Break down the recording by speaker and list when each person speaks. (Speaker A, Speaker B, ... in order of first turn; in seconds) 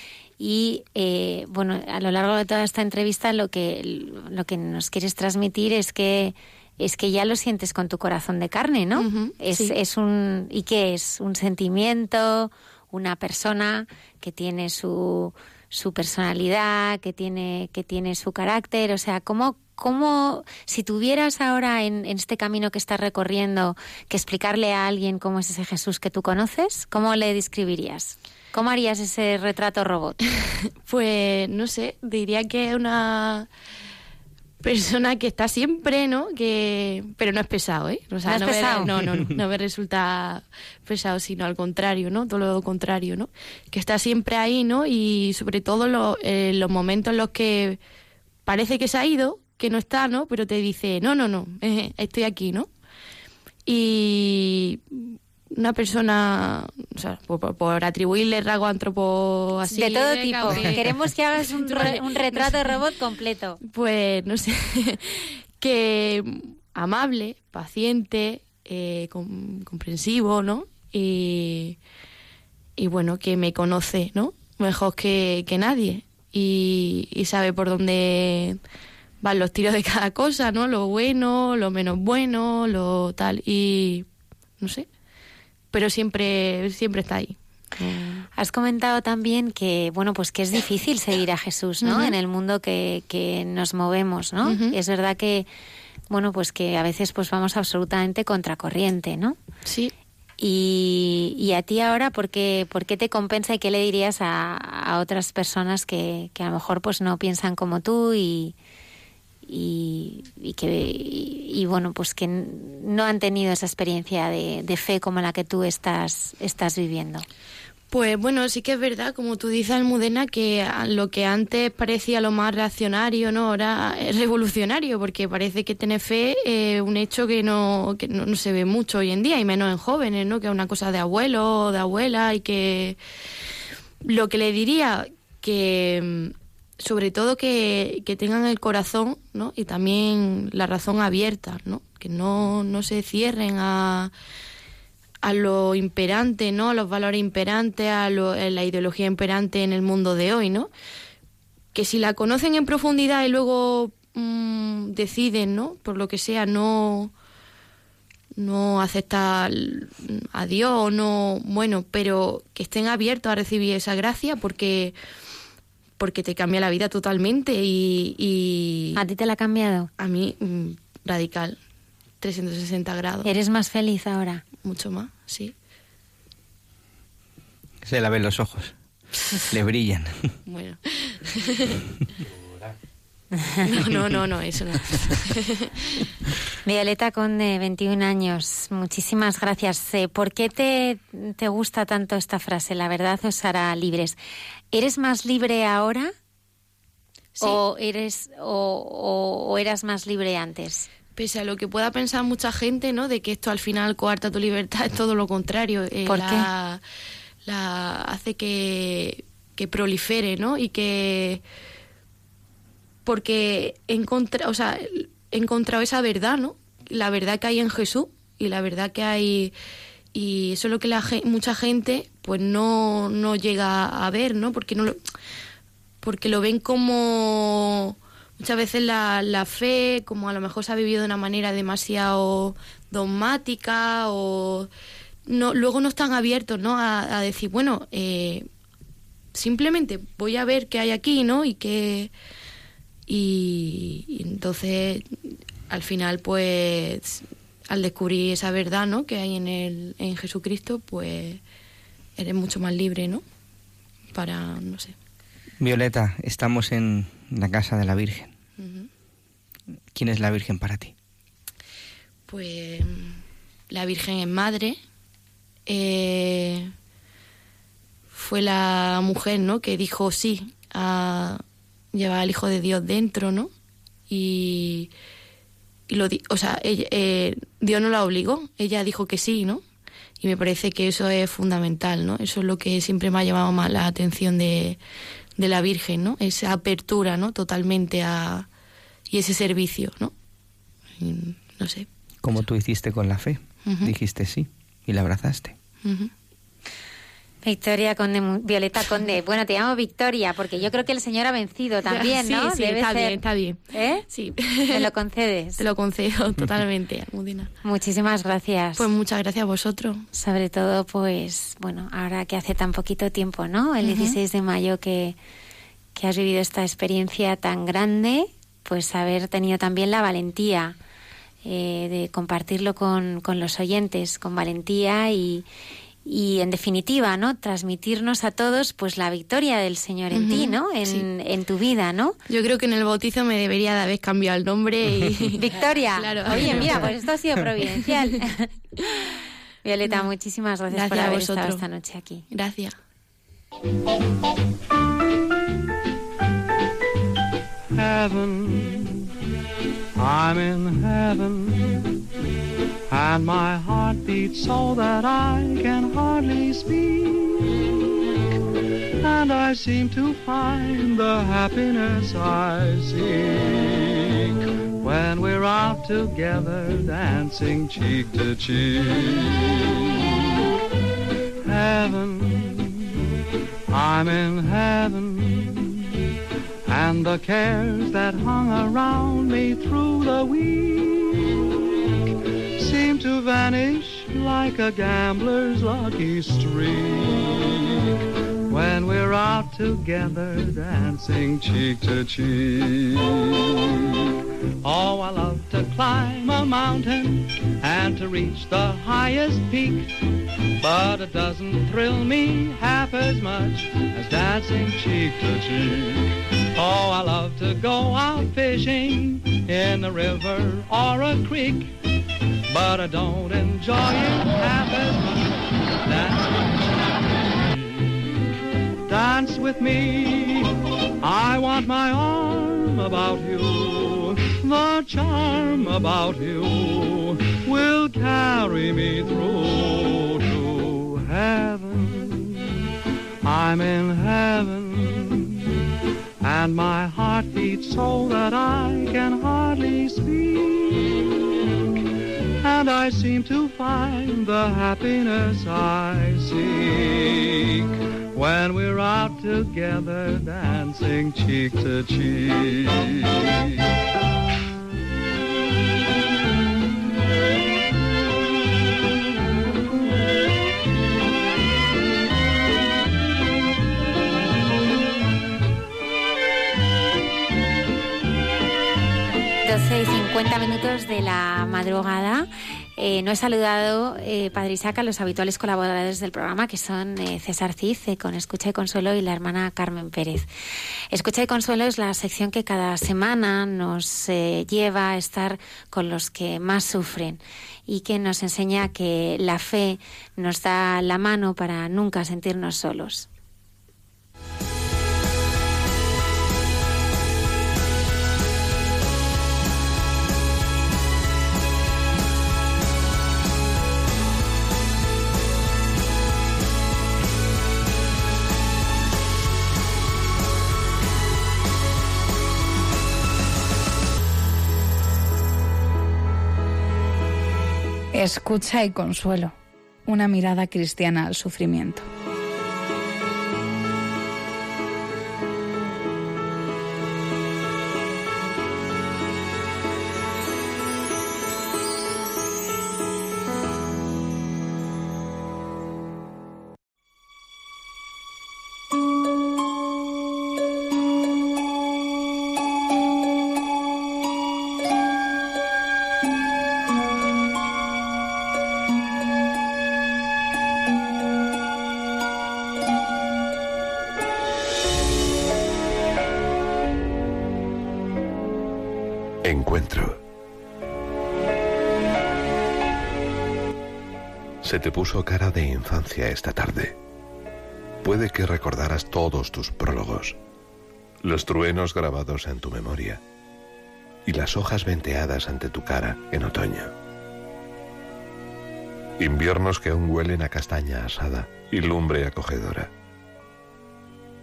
Speaker A: 0.4-30.2, 38.2-38.9, 59.7-63.6, 88.3-95.5, 96.1-99.4, 100.4-108.5, 109.5-117.2, 168.9-169.9, 173.2-174.4, 186.6-194.2, 194.7-196.1, 197.4-200.9, 206.1-206.5, 297.4-304.0, 304.7-305.6, 307.6-308.9, 310.1-315.1, 315.9-320.8, 321.4-325.4, 326.0-332.2, 335.4-338.5, 339.6-342.2, 469.4-480.3, 480.9-493.1
Speaker B: 8.9-9.7, 30.8-33.5, 34.6-47.8, 48.5-52.7, 53.6-62.8, 63.6-71.8, 72.8-78.6, 79.2-84.0, 84.6-84.9, 85.7-88.3, 91.8-92.2, 94.4-94.8, 99.6-99.9, 117.9-133.0, 134.0-144.1, 145.2-150.7, 151.7-157.1, 158.3-164.9, 166.0-169.0, 170.0-171.6, 172.2-173.3, 174.6-175.5, 180.5-181.8, 183.6-185.7, 201.2-206.8, 207.4-211.4, 213.1-219.5, 220.1-225.0, 226.0-234.7, 235.3-238.5, 239.3-242.1, 243.1-245.1, 245.7-251.4, 252.2-253.2, 254.1-254.9, 258.6-258.9, 262.3-264.8, 265.7-266.7, 268.1-271.4, 271.9-273.5, 274.1-274.9, 275.9-279.6, 280.2-284.8, 285.4-288.5, 289.1-290.1, 291.0-291.9, 293.6-293.9, 295.8-296.1, 301.9-304.9, 305.6-307.5, 308.8-310.1, 313.8-314.2, 330.1-331.1, 332.3-336.9, 337.7-338.0, 340.7-341.6, 342.3-342.8
Speaker C: 177.8-178.7, 179.5-180.3, 255.6-258.3, 259.9-260.9, 292.2-295.6
Speaker D: 347.7-349.1, 349.9-351.9, 352.9-358.0, 359.0-370.2, 371.4-372.9, 373.7-375.9, 376.7-381.8, 382.6-387.9, 388.5-394.1, 394.6-399.9, 400.6-411.7, 412.5-418.0, 418.9-420.5, 421.0-432.5, 433.2-435.4, 436.2-441.2, 442.4-453.6
Speaker E: 517.9-521.9
Speaker F: 559.2-560.0, 564.4-566.8, 567.8-570.2, 571.0-573.0, 574.0-576.7, 579.0-582.7